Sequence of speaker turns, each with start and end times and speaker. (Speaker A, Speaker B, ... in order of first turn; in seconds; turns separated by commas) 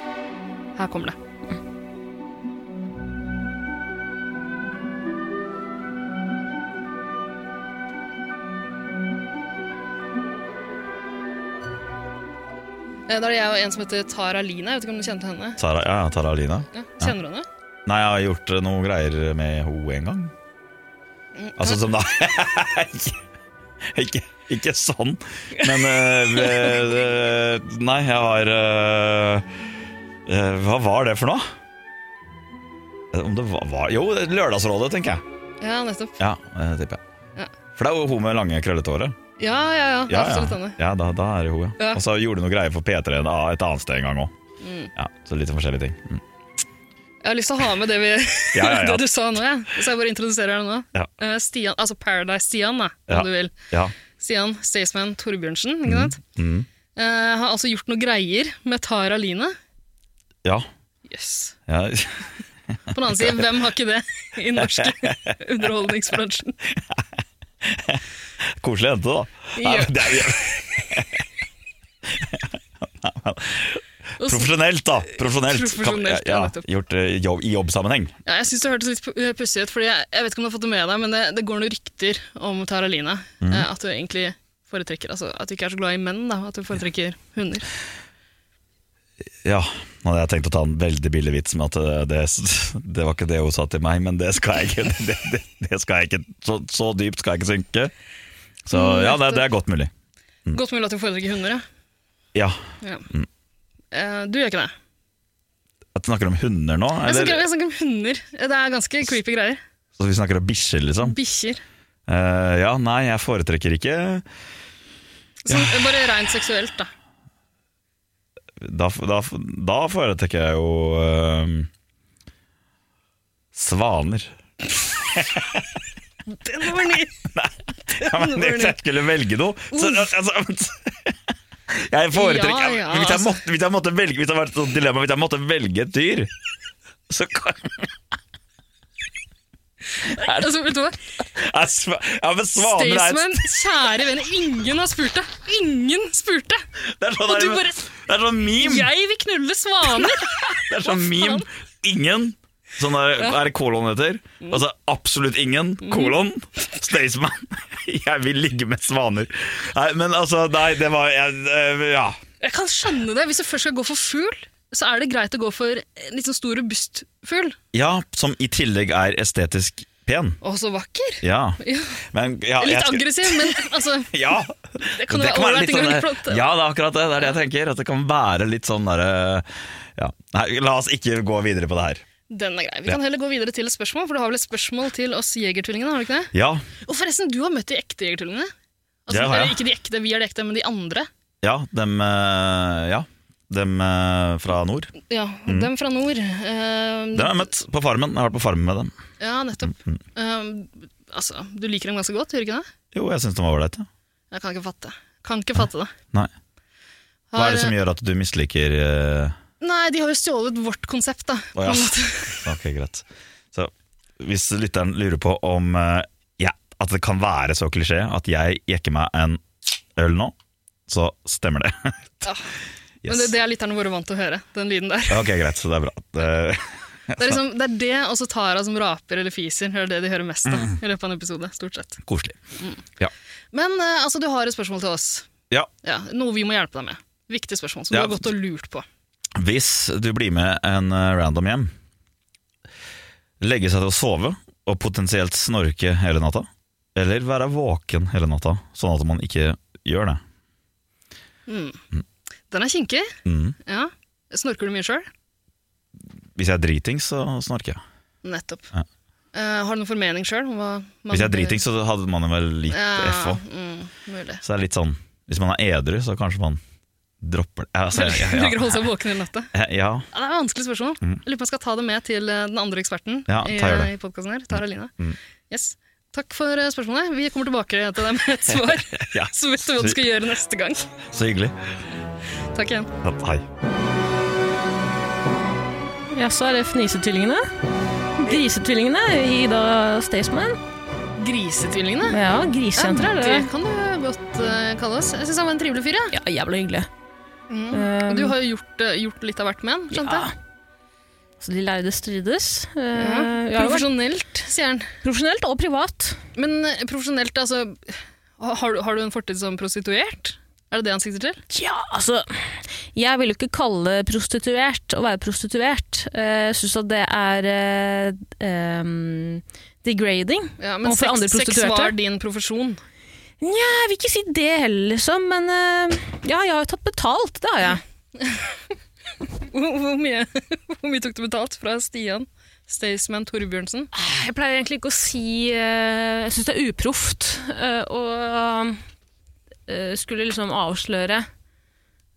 Speaker A: 0.8-1.1, Speaker A: 13.1-15.6, Speaker B: 15.6-17.1, Speaker A: 16.7-17.4, Speaker B: 17.9-20.3, Speaker A: 21.4-21.8, Speaker B: 21.6-23.2, Speaker B: 23.9-29.5, Speaker A: 25.6-26.9, Speaker B: 30.3-31.5, Speaker B: 33.1-35.2, Speaker A: 35.6-36.2, Speaker B: 36.2-37.0, Speaker B: 37.8-39.1, Speaker A: 39.4-40.8, Speaker B: 40.1-44.3, Speaker A: 44.6-44.9, Speaker B: 45.0-46.2, Speaker A: 47.2-53.5, Speaker B: 48.5-49.0, Speaker B: 53.1-53.9, Speaker A: 54.1-56.2, Speaker B: 55.9-56.7, Speaker A: 57.0-59.5, Speaker A: 61.1-61.5, Speaker B: 61.7-62.3, Speaker A: 62.9-66.5, Speaker B: 64.8-65.3, Speaker B: 67.6-68.0, Speaker B: 68.6-71.2, Speaker A: 69.6-70.3, Speaker B: 72.1-78.1, Speaker A: 74.2-74.5, Speaker A: 75.2-76.6, Speaker A: 78.2-87.7, Speaker B: 89.4-97.9, Speaker B: 98.7-99.9, Speaker A: 98.7-99.5, Speaker A: 100.5-101.6, Speaker B: 102.3-103.3, Speaker A: 102.8-103.1, Speaker A: 103.9-104.7, Speaker B: 105.9-107.5, Speaker A: 107.0-109.6, Speaker B: 110.0-111.2, Speaker A: 111.0-111.6, Speaker B: 112.1-114.2, Speaker A: 115.5-116.9, Speaker B: 115.5-115.8, Speaker B: 118.6-121.7, Speaker B: 123.5-124.3, Speaker B: 125.1-125.6, Speaker A: 126.3-127.1, Speaker B: 127.3-131.1, Speaker A: 128.0-128.8, Speaker A: 129.7-130.1, Speaker B: 131.7-136.3, Speaker A: 132.1-133.4, Speaker B: 137.1-137.9, Speaker A: 140.0-141.0, Speaker B: 140.1-140.5, Speaker B: 141.2-143.4, Speaker A: 142.6-146.6, Speaker B: 146.9-148.9, Speaker A: 147.2-147.8, Speaker A: 148.6-151.4, Speaker B: 150.0-162.2, Speaker A: 153.2-153.4, Speaker A: 155.8-156.1, Speaker A: 162.4-167.6, Speaker B: 167.7-170.4, Speaker A: 170.4-172.0, Speaker B: 171.2-171.6, Speaker B: 172.1-182.0, Speaker A: 172.6-174.2, Speaker A: 174.9-176.4, Speaker A: 182.3-186.3, Speaker B: 186.3-186.7, Speaker A: 186.8-188.5, Speaker A: 189.1-191.1, Speaker B: 189.1-189.6, Speaker B: 191.4-194.9, Speaker A: 195.1-197.4, Speaker B: 197.1-198.9, Speaker A: 199.2-202.6, Speaker B: 199.6-200.0, Speaker B: 202.9-203.9, Speaker A: 204.3-205.9, Speaker A: 207.3-207.7, Speaker B: 207.3-209.3, Speaker A: 209.6-212.5, Speaker B: 211.6-219.4, Speaker B: 219.9-220.3, Speaker B: 220.9-222.3, Speaker B: 223.0-223.3, Speaker A: 223.1-225.3, Speaker B: 225.1-227.4, Speaker A: 227.2-232.0, Speaker B: 230.5-230.8, Speaker B: 232.1-232.4, Speaker A: 233.5-235.3, Speaker A: 235.8-238.8, Speaker B: 237.9-238.2, Speaker B: 239.4-241.7, Speaker B: 243.4-250.2, Speaker A: 251.5-251.8, Speaker A: 252.5-253.1, Speaker B: 253.2-253.6, Speaker A: 253.7-255.1, Speaker B: 256.3-257.8, Speaker A: 258.2-258.7, Speaker A: 259.3-261.6, Speaker B: 261.1-263.4, Speaker A: 262.7-264.4, Speaker B: 264.4-266.6, Speaker B: 267.2-268.9, Speaker A: 267.9-269.5, Speaker B: 269.5-270.1, Speaker A: 270.1-274.9, Speaker B: 273.3-273.9, Speaker A: 275.5-280.9, Speaker B: 278.9-280.0, Speaker B: 281.1-281.6, Speaker A: 282.5-282.9, Speaker B: 283.0-283.4, Speaker C: 286.1-287.4, Speaker C: 288.2-290.6, Speaker A: 291.2-292.2, Speaker C: 292.1-293.5, Speaker A: 292.8-296.1, Speaker C: 296.1-296.9, Speaker A: 297.5-300.3, Speaker C: 297.7-298.3, Speaker C: 299.9-300.3, Speaker C: 301.4-303.9, Speaker A: 302.9-304.9, Speaker C: 305.0-306.2, Speaker A: 306.4-311.4, Speaker C: 311.5-321.9, Speaker A: 320.6-322.8, Speaker C: 323.4-327.8, Speaker A: 328.2-328.6, Speaker A: 329.5-333.9, Speaker C: 333.9-338.8, Speaker C: 339.7-341.3